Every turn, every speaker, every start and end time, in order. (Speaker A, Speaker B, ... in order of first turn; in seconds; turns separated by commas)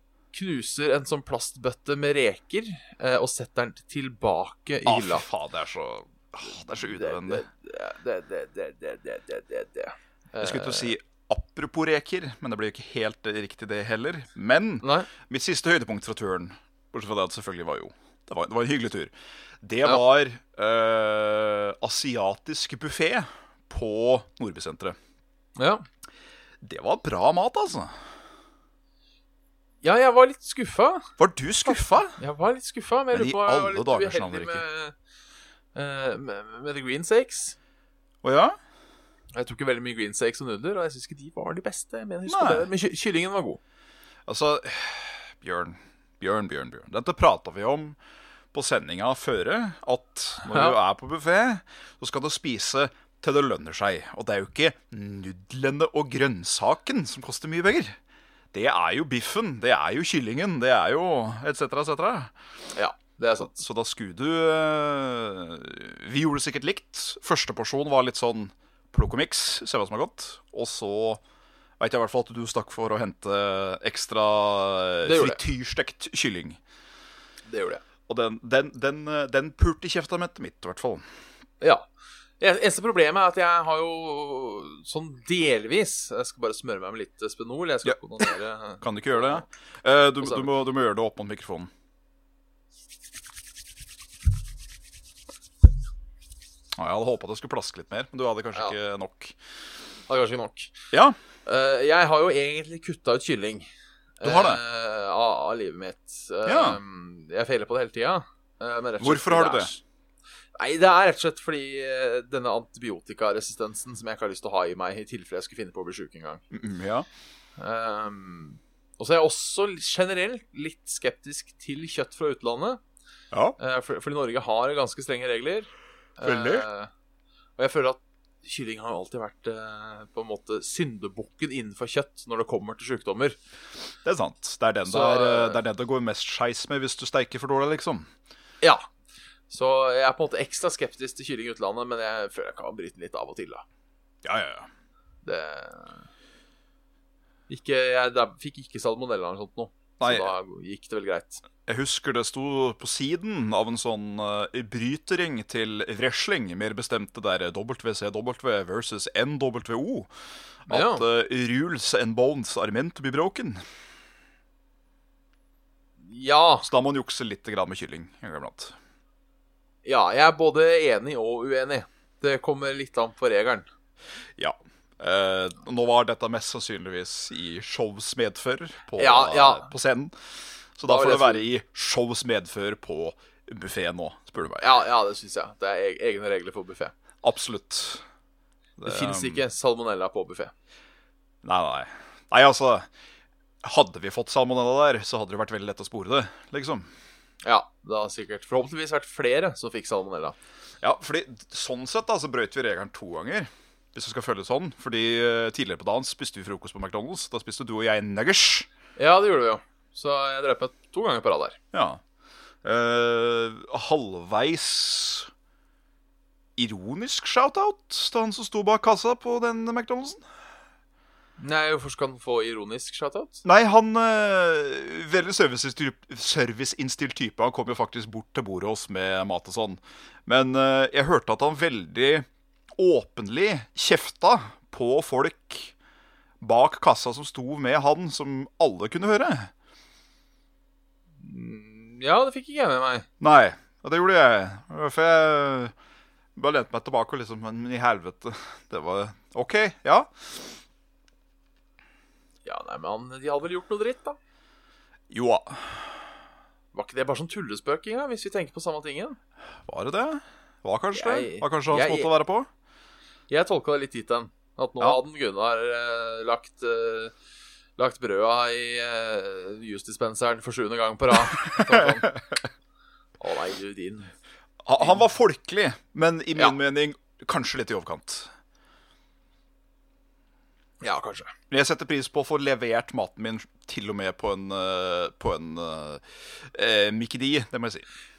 Speaker A: 0.3-5.2, Speaker B: 4.8-7.4, Speaker A: 6.7-10.9, Speaker B: 10.4-24.9, Speaker A: 14.8-15.1, Speaker A: 25.6-25.8, Speaker B: 26.6-27.9, Speaker A: 29.8-31.1, Speaker B: 31.2-32.2, Speaker A: 31.7-34.9, Speaker B: 33.1-34.6, Speaker A: 35.7-37.5, Speaker B: 38.2-38.6, Speaker A: 39.3-43.6, Speaker B: 42.3-42.7, Speaker B: 44.3-48.0, Speaker B: 48.5-58.0, Speaker A: 50.4-50.7, Speaker B: 58.5-62.3, Speaker A: 62.7-63.6, Speaker B: 63.4-71.2, Speaker B: 71.8-76.6, Speaker A: 75.0-75.4, Speaker A: 77.5-77.8, Speaker B: 78.1-81.0, Speaker A: 81.6-81.9, Speaker A: 82.4-89.4, Speaker B: 87.8-88.3, Speaker B: 88.8-91.7, Speaker A: 90.2-90.5, Speaker B: 96.8-99.3, Speaker A: 100.1-100.8, Speaker A: 101.4-103.7, Speaker A: 104.2-109.8, Speaker B: 104.2-104.6, Speaker B: 106.4-106.8, Speaker B: 109.0-109.7, Speaker A: 110.5-116.4, Speaker B: 116.5-117.0, Speaker A: 117.6-122.8, Speaker B: 123.3-123.6, Speaker A: 123.6-126.9, Speaker B: 126.2-126.7, Speaker A: 127.6-133.4, Speaker B: 134.0-138.1, Speaker A: 134.8-135.6, Speaker A: 139.5-143.6, Speaker B: 144.2-144.7, Speaker A: 145.2-146.1, Speaker A: 147.5-151.4, Speaker B: 150.0-150.3, Speaker B: 151.7-160.1, Speaker B: 160.7-163.6, Speaker A: 160.7-161.0, Speaker A: 166.0-166.7, Speaker B: 166.6-168.8, Speaker A: 169.8-173.7, Speaker B: 174.4-184.7, Speaker A: 179.0-179.7, Speaker A: 180.8-181.4, Speaker A: 184.6-186.9, Speaker B: 187.2-188.0, Speaker B: 188.8-189.4, Speaker A: 188.8-190.5, Speaker B: 191.4-192.9, Speaker B: 193.6-196.9, Speaker A: 197.4-200.3, Speaker B: 200.8-208.7, Speaker A: 209.0-211.6, Speaker B: 211.7-212.0, Speaker B: 212.6-215.3, Speaker B: 216.6-220.2, Speaker A: 221.4-223.4, Speaker B: 223.4-235.7, Speaker B: 236.4-239.5, Speaker A: 241.2-243.1, Speaker B: 243.2-245.7, Speaker B: 246.3-250.6, Speaker A: 252.4-254.2, Speaker B: 255.1-256.0, Speaker A: 256.7-259.2, Speaker B: 259.6-262.5, Speaker A: 260.9-262.1, Speaker A: 263.3-267.1, Speaker A: 267.8-272.1, Speaker B: 271.4-272.4, Speaker A: 273.2-274.1, Speaker B: 274.6-278.3, Speaker A: 280.8-281.3, Speaker B: 281.5-287.8